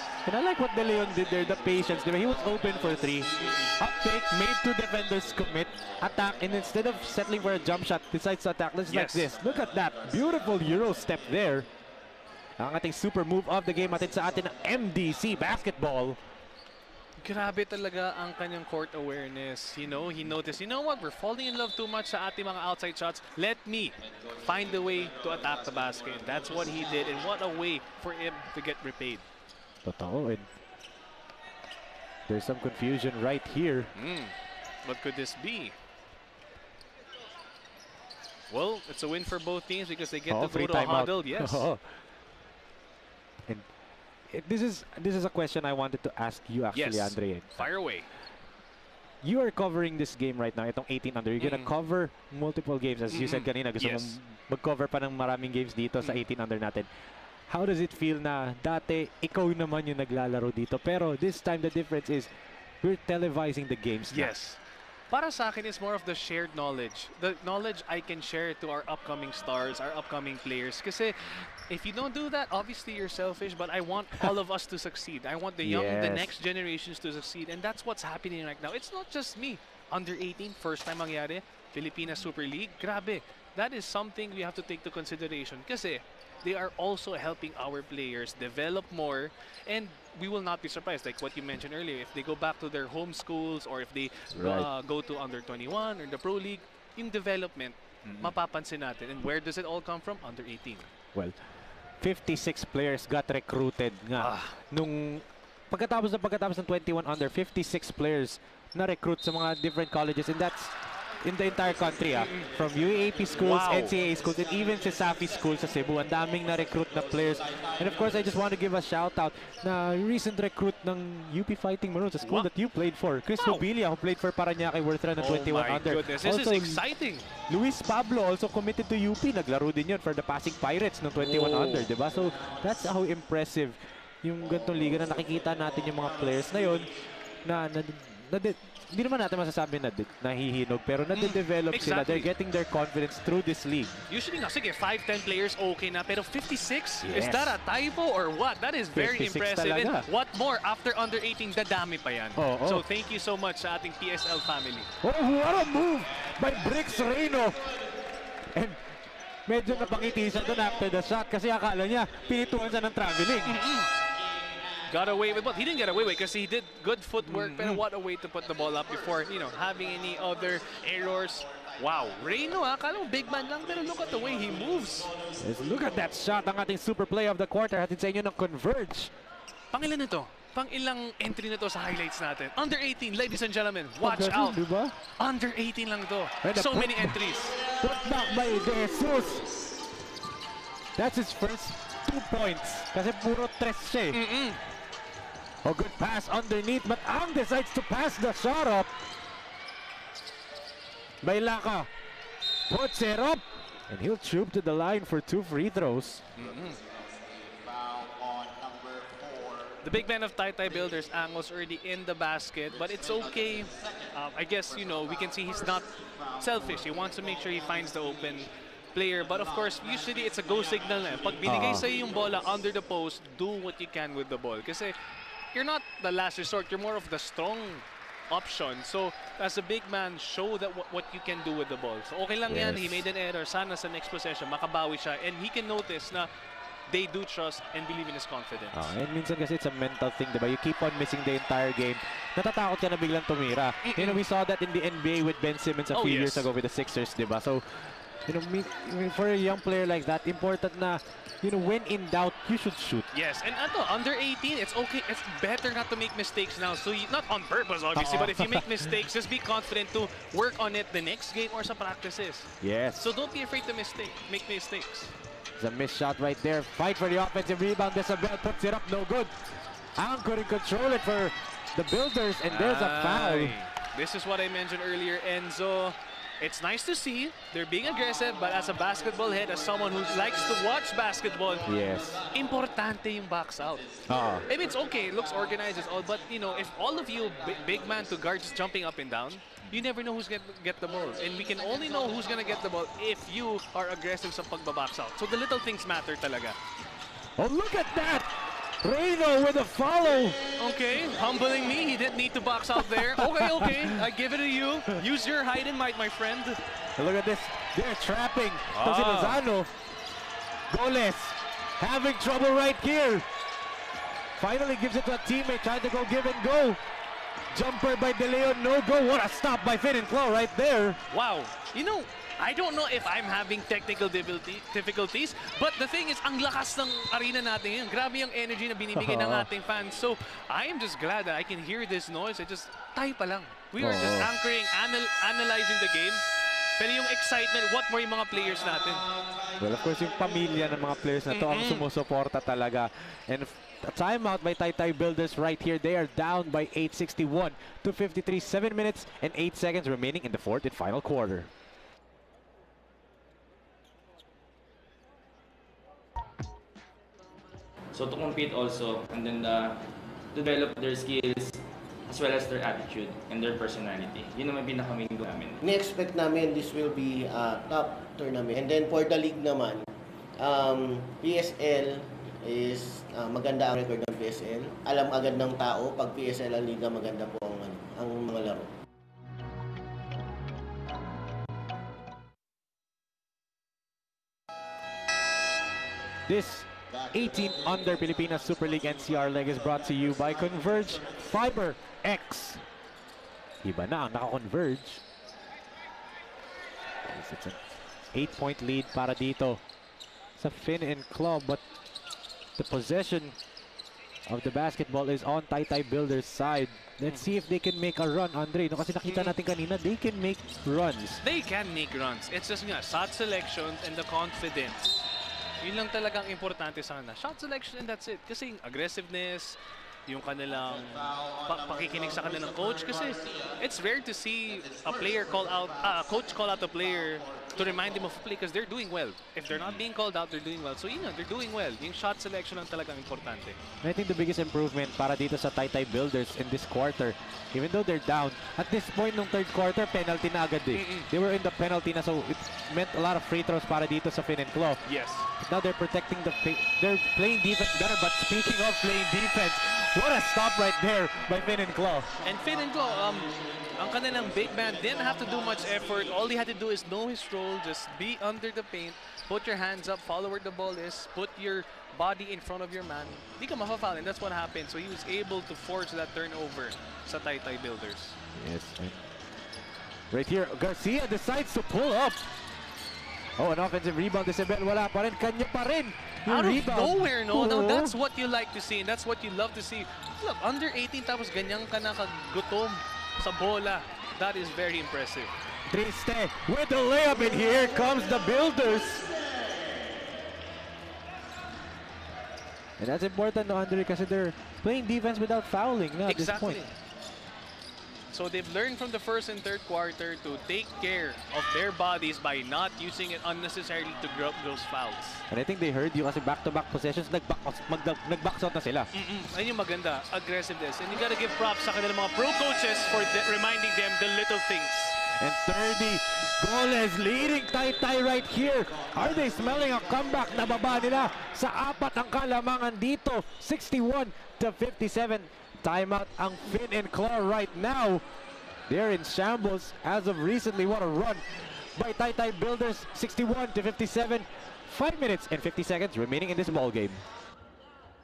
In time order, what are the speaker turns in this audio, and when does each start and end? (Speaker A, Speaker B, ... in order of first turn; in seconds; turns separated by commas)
Speaker A: 0.2-11.7, Speaker B: 8.9-9.3, Speaker A: 12.6-16.2, Speaker B: 17.2-29.2, Speaker A: 29.8-30.5, Speaker A: 32.3-33.9, Speaker B: 33.9-35.8, Speaker B: 38.5-41.6, Speaker A: 40.3-41.8, Speaker A: 44.3-47.7, Speaker B: 46.7-48.1, Speaker A: 49.2-56.9, Speaker B: 51.4-51.7, Speaker B: 53.1-54.2, Speaker A: 57.5-62.3, Speaker A: 62.8-64.3, Speaker B: 64.1-64.6, Speaker B: 65.1-100.9, Speaker A: 75.6-76.3, Speaker A: 94.3-94.7, Speaker A: 98.1-98.3, Speaker A: 102.0-126.8, Speaker B: 104.2-104.5, Speaker B: 113.4-113.9, Speaker B: 122.2-122.5, Speaker B: 123.4-123.6, Speaker B: 125.2-127.3, Speaker A: 127.5-144.0, Speaker B: 131.2-131.9, Speaker B: 141.1-142.3, Speaker B: 144.1-154.9, Speaker A: 147.0-147.6, Speaker A: 148.9-150.1, Speaker A: 152.3-152.8, Speaker A: 155.0-157.7, Speaker A: 158.5-158.8, Speaker A: 159.4-163.6, Speaker B: 163.4-163.9, Speaker B: 164.9-175.1, Speaker A: 167.2-167.8, Speaker A: 175.4-179.1, Speaker B: 179.7-184.6, Speaker A: 184.0-184.9, Speaker B: 185.2-187.6, Speaker A: 186.4-189.5, Speaker A: 190.9-194.2, Speaker B: 194.1-194.6, Speaker A: 195.6-198.9, Speaker A: 201.2-201.9, Speaker A: 202.7-206.2, Speaker B: 206.3-206.8, Speaker B: 209.8-224.9, Speaker A: 221.4-221.8, Speaker B: 225.5-236.3, Speaker A: 232.5-233.0, Speaker B: 236.9-238.9, Speaker A: 238.7-253.1, Speaker B: 243.8-244.2, Speaker B: 245.9-246.5, Speaker B: 253.1-265.1, Speaker A: 257.9-258.9, Speaker A: 262.6-263.1, Speaker A: 265.6-269.3, Speaker A: 269.9-273.6, Speaker B: 272.5-281.7, Speaker A: 281.6-282.2, Speaker B: 282.3-296.6, Speaker A: 284.1-284.5, Speaker A: 297.4-300.4, Speaker B: 300.6-306.6, Speaker A: 302.8-304.0, Speaker A: 307.0-309.7, Speaker B: 308.7-309.4, Speaker A: 310.7-313.2, Speaker A: 314.4-316.8, Speaker A: 317.5-321.0, Speaker B: 321.1-336.2, Speaker A: 328.9-329.5, Speaker A: 333.8-334.3, Speaker B: 336.8-339.1, Speaker A: 339.6-351.5, Speaker B: 341.3-341.9, Speaker C: 357.9-359.8, Speaker C: 360.3-365.6, Speaker D: 365.6-369.9, Speaker D: 370.4-378.7, Speaker A: 386.3-392.6, Speaker A: 393.6-395.0, Speaker A: 397.0-397.6, Speaker A: 398.1-399.6, Speaker A: 400.4-401.6, Speaker A: 402.6-403.4, Speaker A: 404.3-411.2, Speaker B: 409.1-409.3, Speaker B: 411.2-414.9, Speaker B: 415.6-433.6, Speaker A: 433.8-444.8, Speaker B: 440.7-441.1, Speaker B: 444.8-445.3, Speaker A: 445.4-452.1, Speaker B: 452.2-468.2, Speaker A: 468.3-469.0, Speaker A: 470.1-472.2, Speaker A: 473.4-477.9, Speaker B: 476.2-485.3, Speaker A: 485.7-489.1, Speaker A: 492.8-496.6, Speaker B: 496.1-496.7, Speaker B: 498.1-505.2, Speaker A: 505.3-508.9, Speaker B: 508.9-515.0, Speaker A: 515.1-528.0, Speaker A: 528.7-537.0